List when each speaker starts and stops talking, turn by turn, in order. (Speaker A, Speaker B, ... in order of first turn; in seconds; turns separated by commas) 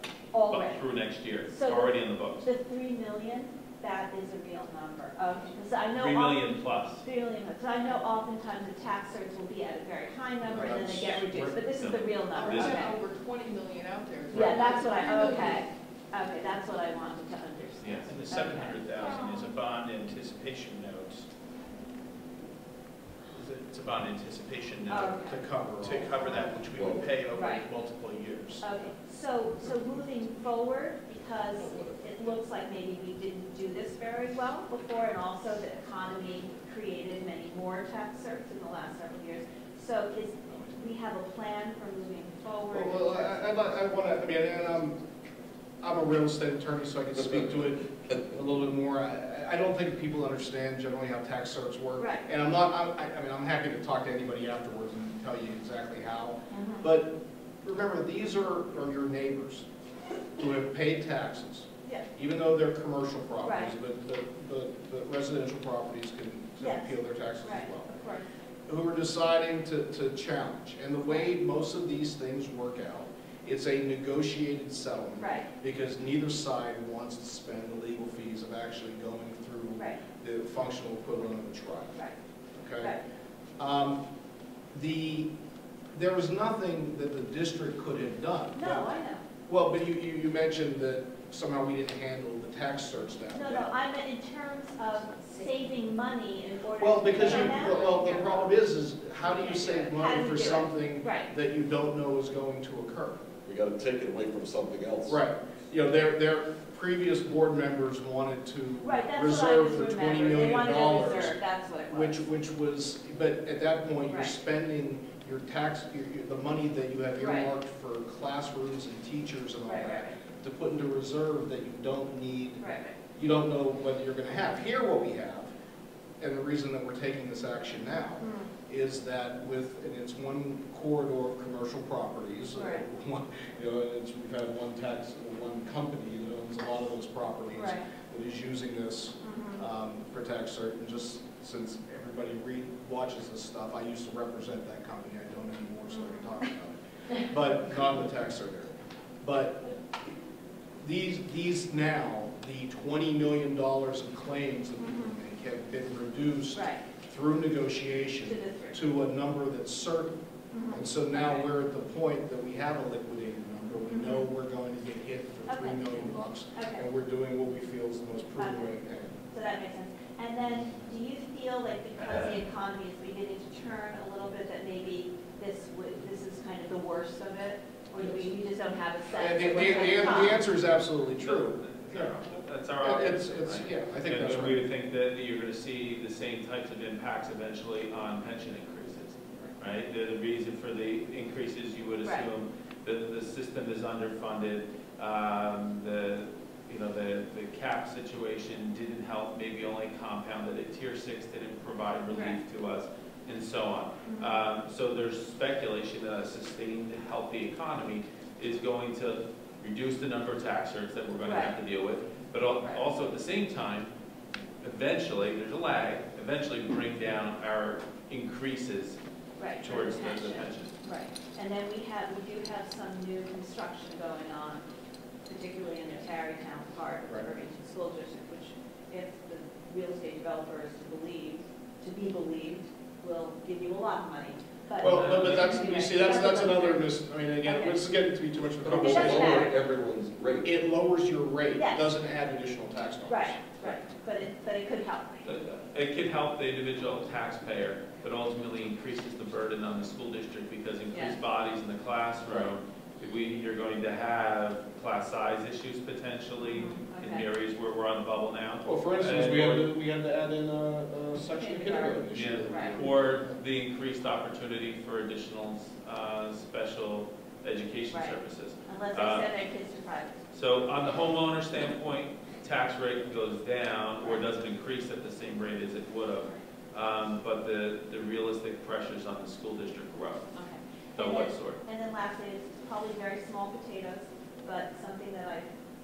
Speaker A: 0.3-0.8, Speaker B: 0.5-2.5, Speaker A: 1.5-13.0, Speaker B: 5.9-7.0, Speaker C: 10.5-11.6, Speaker B: 11.7-12.9, Speaker D: 12.3-15.6, Speaker A: 14.3-18.8, Speaker C: 14.3-14.7, Speaker B: 17.8-18.1, Speaker E: 18.1-21.3, Speaker E: 23.3-28.6, Speaker A: 24.9-25.4, Speaker C: 25.2-26.2, Speaker F: 26.7-27.1, Speaker A: 27.3-27.6, Speaker A: 28.6-43.8, Speaker C: 42.7-45.0, Speaker C: 45.8-59.6, Speaker A: 52.0-52.3, Speaker A: 56.5-56.9, Speaker C: 60.4-67.9, Speaker A: 63.4-63.7, Speaker A: 66.6-68.2, Speaker C: 68.7-82.0, Speaker A: 75.2-75.5, Speaker C: 82.6-82.9, Speaker C: 83.6-84.0, Speaker C: 84.7-85.3, Speaker C: 85.9-88.9, Speaker A: 88.5-89.2, Speaker C: 89.5-93.7, Speaker A: 93.3-98.3, Speaker C: 96.8-103.2, Speaker A: 99.2-101.3, Speaker F: 103.5-105.2, Speaker C: 105.1-111.4, Speaker A: 108.8-112.2, Speaker C: 111.9-122.6, Speaker A: 114.0-114.3, Speaker A: 117.2-117.5, Speaker A: 119.6-120.2, Speaker A: 122.6-122.9, Speaker C: 123.1-125.5, Speaker C: 126.2-148.7, Speaker A: 128.2-128.5, Speaker A: 132.5-132.8, Speaker A: 137.5-137.9, Speaker A: 139.2-139.6, Speaker A: 145.9-146.3, Speaker C: 149.2-149.7, Speaker C: 150.8-160.1, Speaker A: 154.8-155.1, Speaker A: 156.5-156.8, Speaker A: 158.2-158.8, Speaker A: 160.5-161.4, Speaker C: 160.7-169.2, Speaker A: 163.9-164.2, Speaker A: 165.5-166.8, Speaker A: 168.4-168.7, Speaker A: 169.3-180.4, Speaker C: 179.1-182.1, Speaker B: 181.2-213.9, Speaker C: 182.8-184.6, Speaker A: 202.1-202.4, Speaker A: 204.0-204.4, Speaker A: 211.2-211.5, Speaker B: 214.6-219.0, Speaker A: 219.4-224.6, Speaker B: 219.6-220.7, Speaker A: 225.3-236.9, Speaker B: 234.8-235.7, Speaker C: 234.8-239.5, Speaker A: 237.4-237.8, Speaker F: 238.7-240.4, Speaker A: 238.7-239.6, Speaker C: 240.4-243.8, Speaker A: 241.5-241.8, Speaker A: 243.1-245.2, Speaker B: 245.2-259.7, Speaker A: 256.5-257.2, Speaker C: 258.6-263.4, Speaker A: 261.3-262.8, Speaker B: 262.1-269.3, Speaker A: 267.9-268.1, Speaker A: 268.7-270.1, Speaker B: 270.3-280.3, Speaker A: 280.3-285.5, Speaker B: 281.0-281.6